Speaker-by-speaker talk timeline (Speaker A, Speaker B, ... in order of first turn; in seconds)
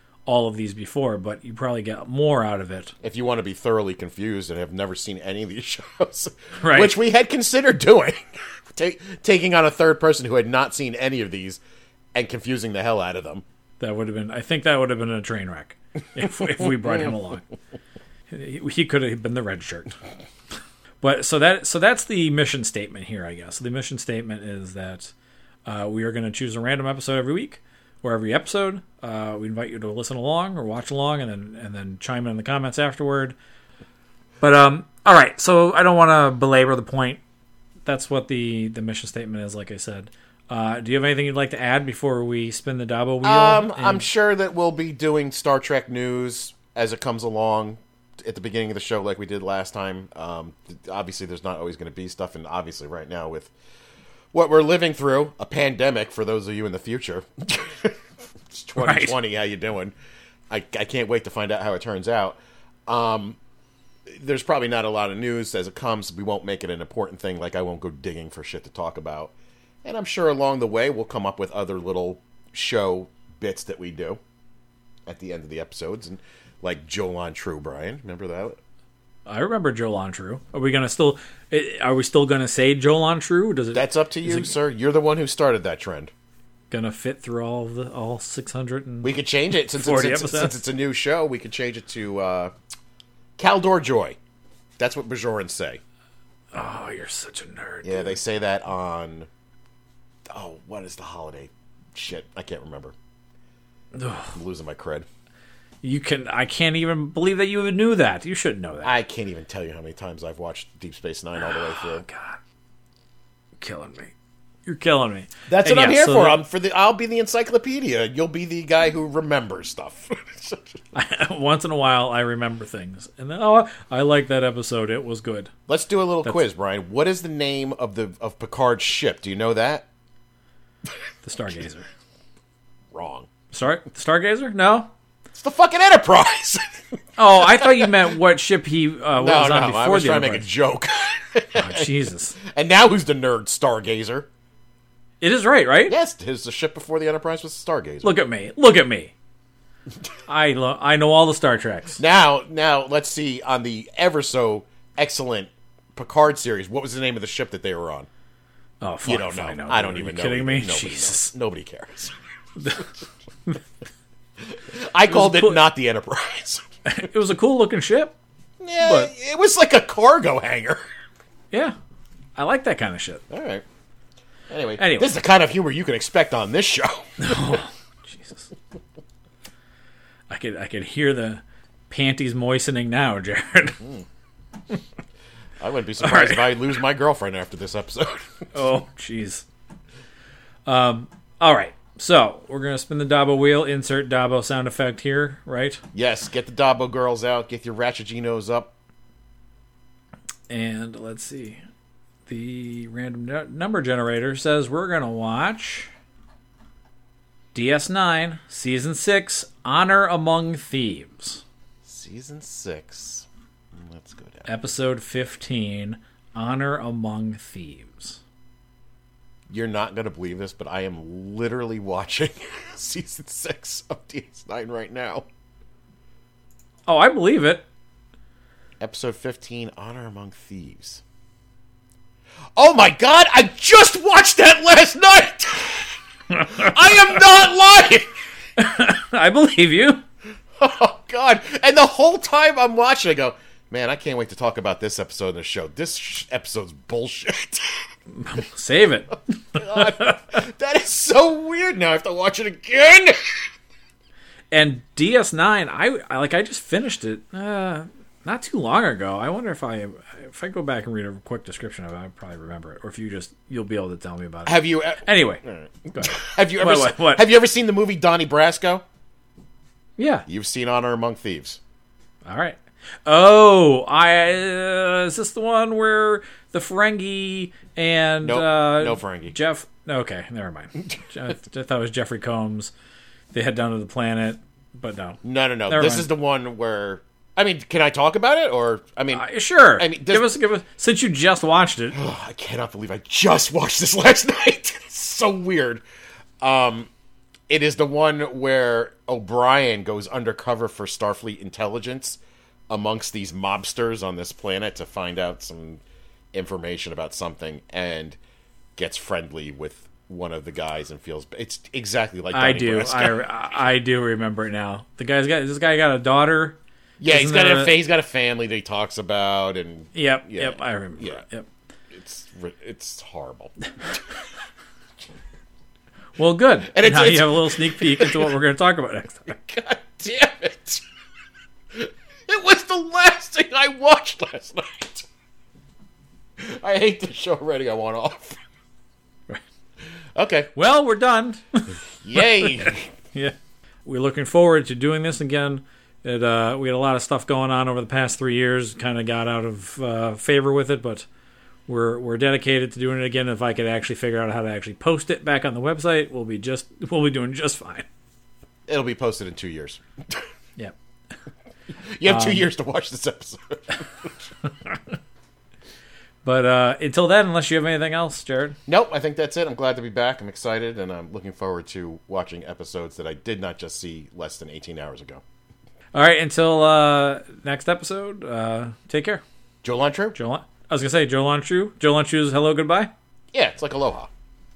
Speaker A: 0.3-3.0, 6.6-7.0, 13.8-17.5, 18.3-19.9, 21.0-25.1, 25.7-33.4, 34.4-37.2, 37.9-44.1, 58.8-59.2, 79.3-84.5, 86.7-89.2, 89.7-90.6, 96.5-98.2, 104.0-104.3, 105.8-109.0, 111.4-112.4, 113.6-114.1, 114.7-116.4, 120.9-125.5, 131.2-131.9, 133.5-134.9, 137.2-140.5, 141.6-142.4, 145.2-145.9, 148.0-149.1, 150.3-152.0, 158.8-161.3, 162.6-162.9, 165.1-165.7, 166.9-168.2, 168.8-169.1, 172.4-173.2, 174.8-175.1, 177.2-178.5, 180.3-183.8, 186.0-186.5, 188.5-189.4, 190.7-195.8, 200.5-201.6, 202.3-205.9, 207.5-211.4, 214.5-218.2, 226.9-227.7, 238.6-240.0, 248.1-250.2, 254.5-265.4, 265.9-267.3, 270.0-270.3, 272.3-282.7, 283.3-286.1, 289.1-292.0, 312.3-317.8, 319.9-321.5, 326.2-329.4, 340.6-351.1, 351.7-357.9, 362.1-362.5, 366.2-368.6, 375.9-379.2, 380.1-382.9
Speaker B: 3.0-11.6, 12.1-13.4, 43.2-53.5, 54.3-58.0, 58.5-59.9, 60.5-63.4, 64.1-69.3, 69.8-74.2, 75.1-78.6, 83.7-86.1, 89.0-92.5, 93.4-94.2, 94.8-95.8, 97.8-99.3, 100.3-103.0, 104.3-105.1, 108.8-112.0, 115.5-120.7, 125.7-129.9, 132.9-133.3, 135.3-136.6, 137.3-138.1, 139.2-144.3, 145.9-148.2, 152.0-158.1, 159.0-162.2, 164.5-166.6, 168.6-170.8, 173.3-173.6, 174.5-177.6, 185.6-188.5, 195.9-198.7, 211.8-214.5, 219.5-225.2, 228.8-231.0, 232.6-235.9, 236.4-238.1, 240.6-247.8, 249.6-253.2, 264.5-268.8, 270.3-271.6, 278.2-279.4, 285.2-290.4, 291.9-295.8, 296.4-296.9, 297.5-305.8, 306.3-308.2, 308.8-313.2, 317.0-321.2, 321.9-324.0, 326.7-328.3, 329.3-330.8, 331.8-335.1, 336.4-338.4, 340.1-340.5, 342.0-342.9, 358.7-360.2, 361.9-364.2, 368.7-375.2, 379.6-380.2, 383.3-384.1